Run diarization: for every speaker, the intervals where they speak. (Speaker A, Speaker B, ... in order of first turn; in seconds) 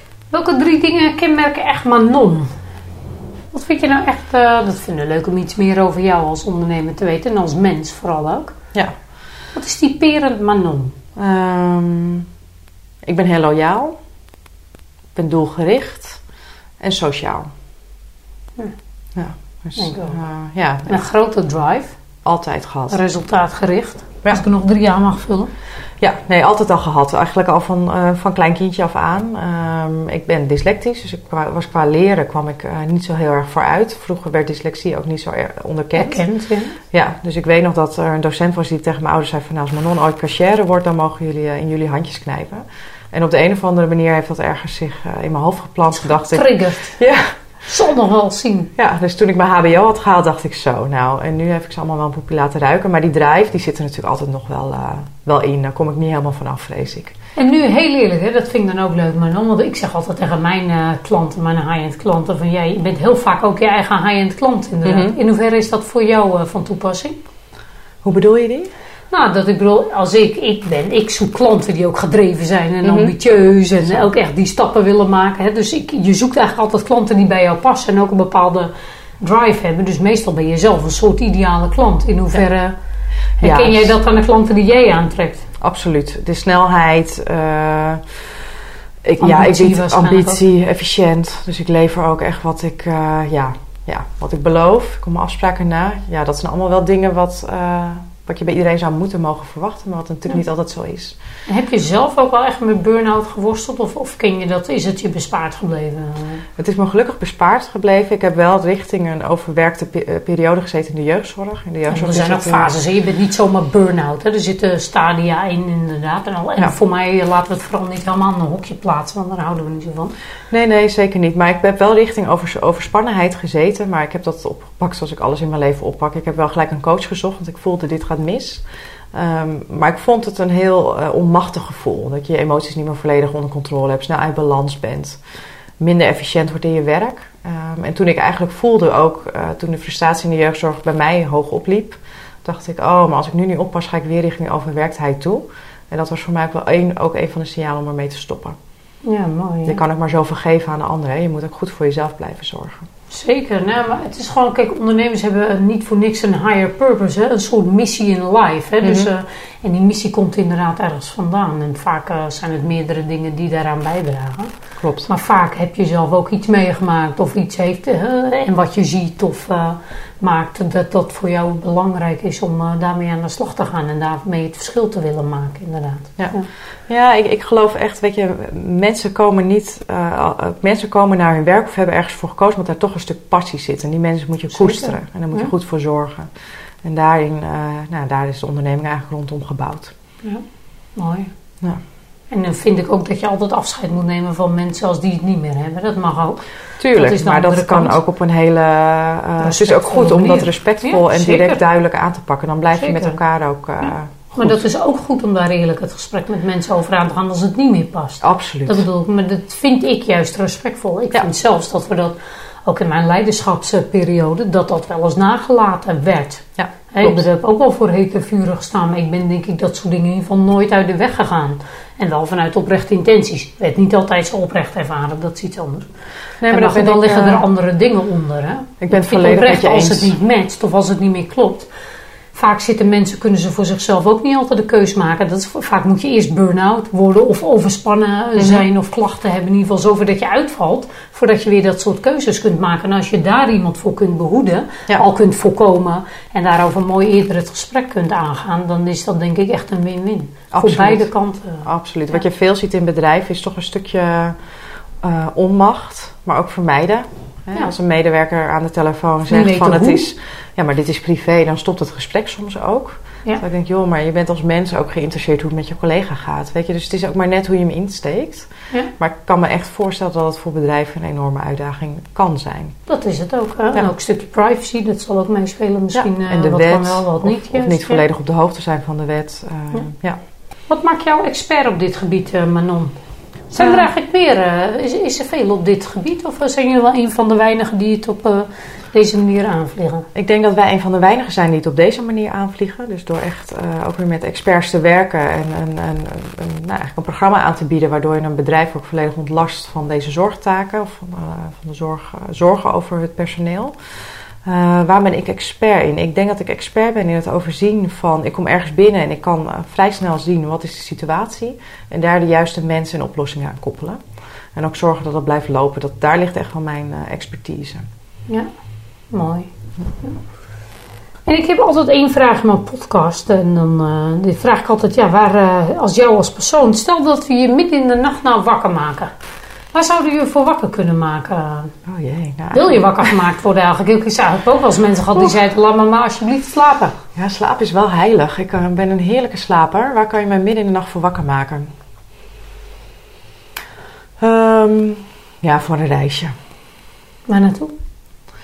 Speaker A: 0.3-2.5, 3.5-8.5, 9.5-10.9, 19.8-20.2, 20.9-22.0, 22.9-25.5, 35.9-36.8, 46.0-47.0, 47.6-48.7, 57.4-67.2, 69.1-82.7, 83.4-85.5, 89.2-90.4, 101.5-106.4, 111.9-120.1, 149.0-149.8, 153.1-164.5, 165.1-176.5, 184.5-185.5, 190.9-191.3, 192.3-198.0, 199.4-201.6, 202.8-203.2, 204.3-225.9, 226.5-231.7, 232.3-251.7, 259.3-260.0, 272.9-278.0, 280.7-282.9, 283.5-290.1, 319.1-319.5, 321.3-329.1, 329.7-331.7, 332.5-336.9, 347.3-347.7
Speaker B: 11.2-12.3, 13.0-13.9, 15.1-16.2, 16.8-17.5, 19.1-21.0, 22.2-23.0, 26.0-36.2, 36.9-47.3, 48.8-57.1, 64.8-65.1, 68.0-68.7, 72.8-73.1, 83.4-84.0, 85.6-88.0, 89.0-101.2, 106.6-112.7, 120.5-135.2, 135.8-148.6, 149.7-152.8, 158.8-159.1, 164.8-165.1, 176.9-186.3, 186.8-189.9, 196.8-204.6, 208.2-208.8, 216.6-217.2, 226.4-227.4, 228.8-230.1, 238.4-238.6, 250.5-251.1, 251.6-254.4, 255.0-272.7, 275.9-280.2, 290.1-303.7, 304.4-314.0, 314.5-317.8, 331.9-333.1, 337.1-341.7, 344.2-346.3